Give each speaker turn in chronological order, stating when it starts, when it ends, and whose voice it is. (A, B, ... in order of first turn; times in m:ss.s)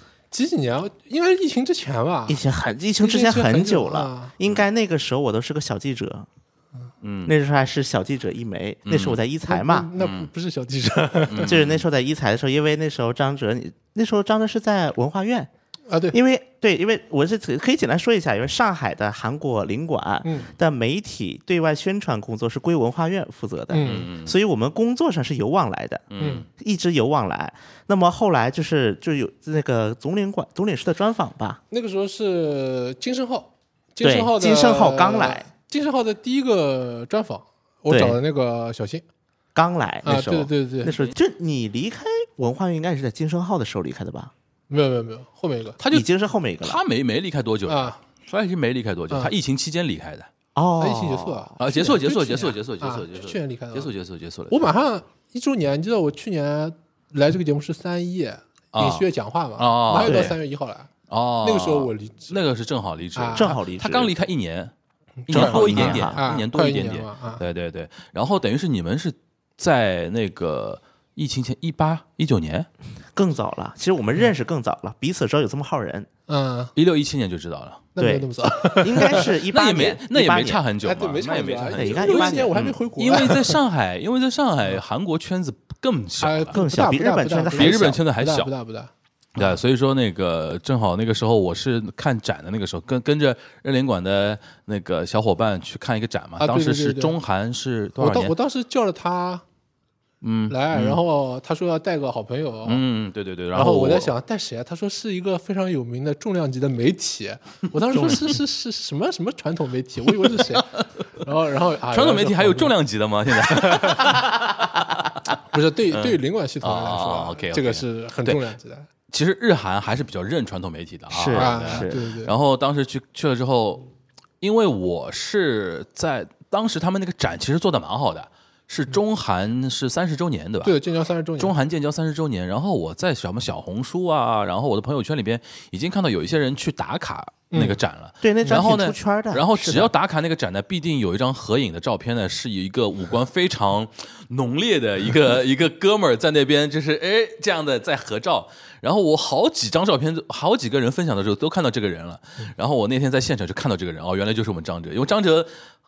0:00.3-0:02.4 A
0:02.3-0:06.3 B
0:03.0-0:04.3 A
0:07.0-0:07.3 C
0:07.2-0:09.9 B
0:08.9-0:09.2 C
0:09.5-0:11.5 A
0:10.0-0:10.3 C
0:11.3-0:11.8 C
0:11.4-0:15.5 B
0:15.9-0:16.2 A
0:16.1-0:31.6 B
0:20.2-0:20.5 A
0:23.7-0:24.1 A
0:23.8-0:24.4 C
0:26.1-0:26.5 C
0:26.2-0:26.4 A
0:31.7-0:39.0 A
0:34.0-0:35.5 B
0:37.9-0:38.2 B
0:39.6-0:44.3 B
0:40.0-0:40.9 A
0:44.7-0:45.8 A
0:45.8-0:46.1 C
0:45.9-0:46.8 B
0:46.6-0:50.3 C
0:47.7-0:48.0 A
0:50.6-0:51.6 B
0:50.8-0:53.9 A
0:51.6-0:54.7 C
0:54.5-1:00.9 A
0:58.7-0:59.1 C
0:59.6-1:00.3 C
1:00.0-1:00.4 B
1:01.1-1:04.7 C
1:01.4-1:02.4 A
1:03.2-1:03.6 A
1:03.3-1:04.1 B
1:05.2-1:07.4 A
1:05.3-1:12.7 C
1:05.3-1:06.2 B
1:13.1-1:16.1 B
1:16.3-1:16.7 A
1:16.8-1:17.9 C
1:18.0-1:19.3 A
1:18.0-1:20.6 B
1:19.0-1:26.6 C
1:20.8-1:23.6 A
1:21.8-1:22.8 B
1:26.2-1:29.5 A
1:26.5-1:28.0 B
1:27.6-1:28.5 C
1:29.4-1:38.3 C
1:36.4-1:37.2 A
1:38.0-1:39.4 A
1:40.2-1:41.0 C
1:40.5-1:42.8 A
1:42.6-1:44.1 C
1:43.5-1:52.7 A
1:47.9-1:48.3 C
1:50.2-1:51.1 C
1:51.9-1:54.9 C
1:53.4-1:54.1 A
1:55.5-1:58.9 A
1:55.9-1:58.4 C
1:59.1-2:03.8 C
2:01.1-2:02.0 B
2:01.4-2:02.3 A
2:04.4-2:10.8 C
2:10.6-2:11.5 A
2:11.4-2:35.5 C
2:17.5-2:17.8 A
2:18.2-2:19.9 B